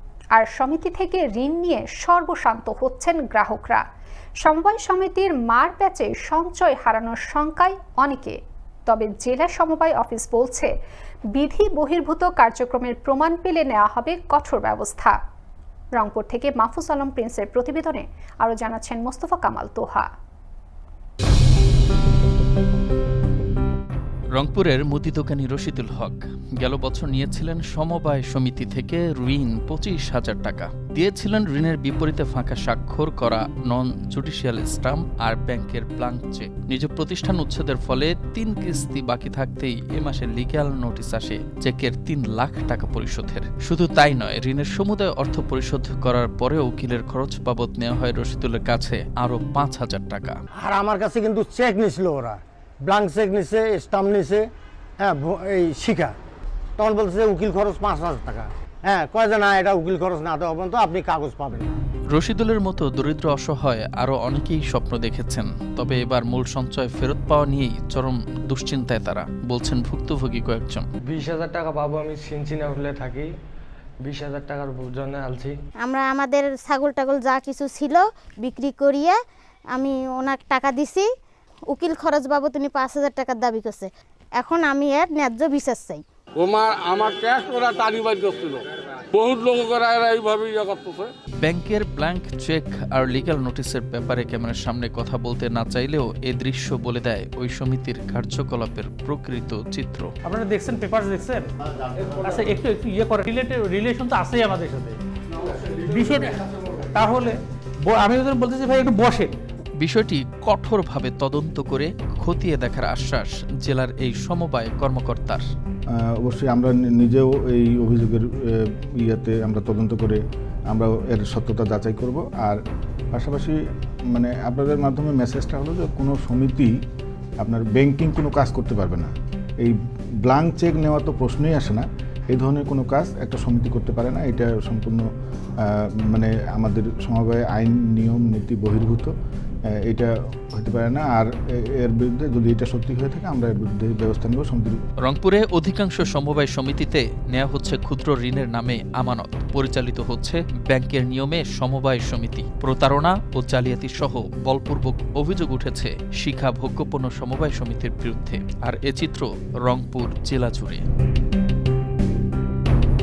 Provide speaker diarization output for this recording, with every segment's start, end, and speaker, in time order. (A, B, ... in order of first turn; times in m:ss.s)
0:00.3-0:03.8 A
0:04.4-0:10.7 A
0:11.3-0:15.2 A
0:16.0-0:20.1 A
0:24.3-0:50.4 B
0:50.6-0:54.5 C
0:55.0-0:56.2 C
0:56.8-1:01.8 C
1:02.1-1:10.9 B
1:11.1-1:13.3 D
1:14.0-1:15.6 D
1:15.8-1:19.2 E
1:19.7-1:21.1 E
1:21.7-1:26.0 E
1:26.4-1:31.1 F
1:31.4-1:40.1 B
1:40.2-1:41.5 G
1:42.0-1:45.0 G
1:45.6-1:49.4 G
1:49.8-1:55.4 B
1:56.0-2:02.6 H
2:03.1-2:03.6 H
2:04.1-2:06.7 H
2:07.4-2:15.1 H
2:15.6-2:19.1 H
2:19.7-2:24.8 H
2:25.0-2:40.9 B